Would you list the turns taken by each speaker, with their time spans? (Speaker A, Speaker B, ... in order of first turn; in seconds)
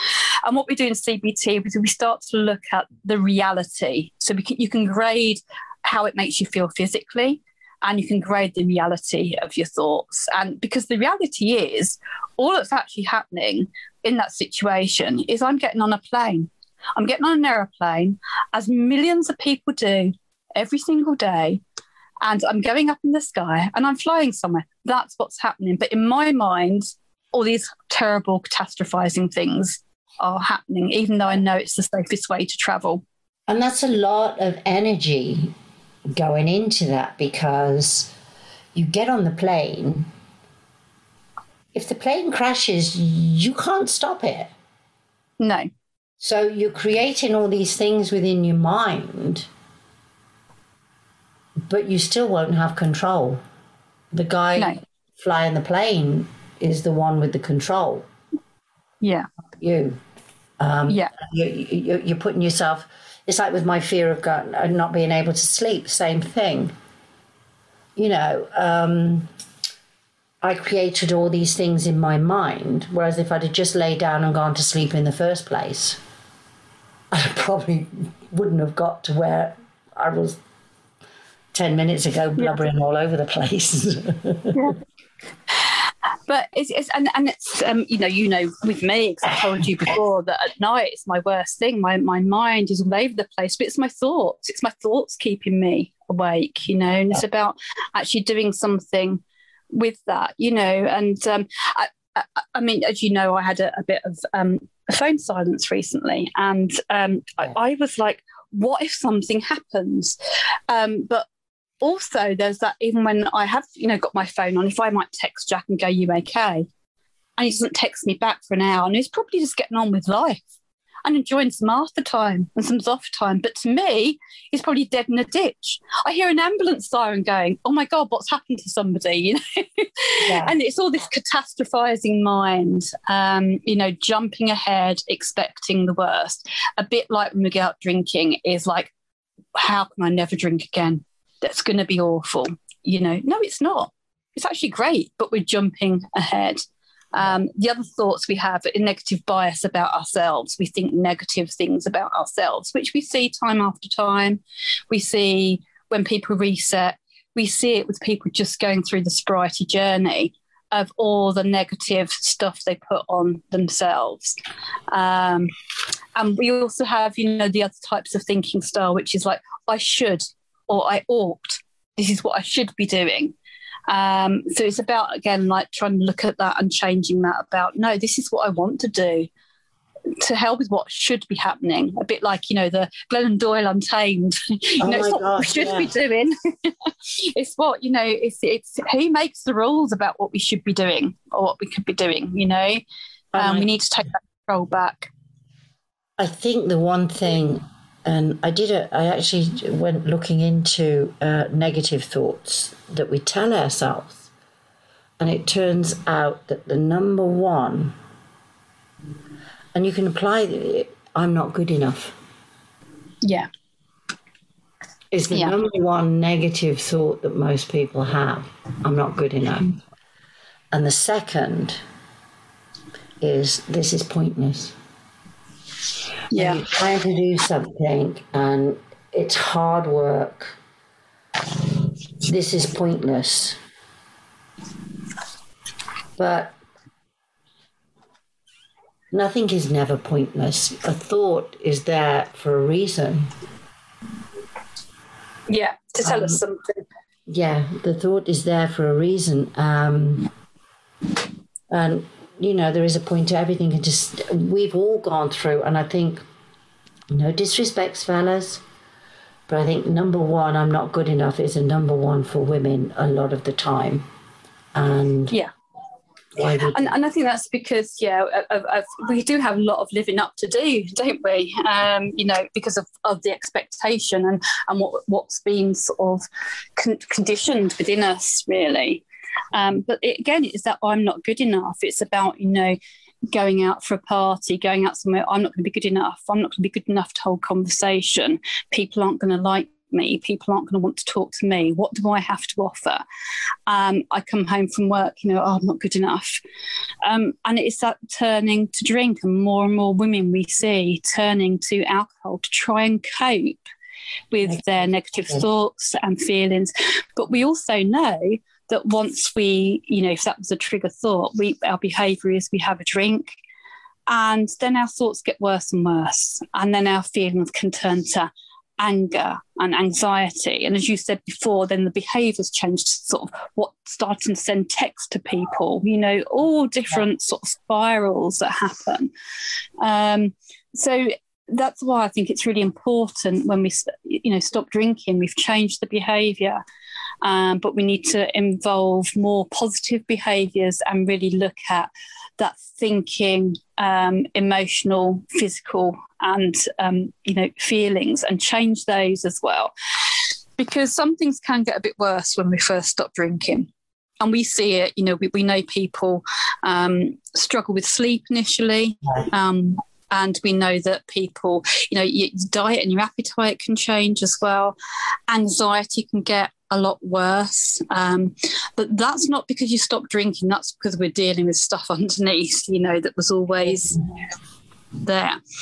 Speaker A: 0.4-21.6, 22.2-33.0, 45.4-45.7, 59.0-59.3, 85.5-110.1, 110.7-111.2, 111.8-116.7, 117.4-120.4, 121.0-138.9, 139.5-146.6, 147.1-164.4, 164.9-165.5, 166.2-173.3, 173.9-179.3, 180.2-192.8, 193.4-195.1, 226.3-226.6, 245.5-246.8, 266.7-279.0, 279.5-282.8, 283.3-293.0, 293.7-296.4, 297.0-303.6, 304.3-313.4, 314.1-329.1, 329.8-336.6, 337.2-349.7, 350.6-364.7, 365.3-374.0, 375.0-375.4
Speaker B: 33.5-35.5, 36.1-38.1, 38.7-40.1, 41.7-44.5, 46.2-49.5, 51.7-53.4, 54.1-58.0, 59.6-60.0, 60.6-66.7, 68.0-69.3, 70.4-76.0, 77.1-80.4, 81.5-84.7, 130.2-130.5, 184.8-185.9, 193.3-193.7, 196.2-204.3, 205.2-207.9, 209.7-212.1, 215.1-219.8, 220.7-221.8, 223.2-224.7, 226.3-230.6, 232.2-233.6, 236.2-236.5, 239.1-243.3, 246.0-246.4, 247.3-250.3, 251.7-256.2, 257.1-258.6, 259.5-264.0, 264.7-265.4, 266.4-266.9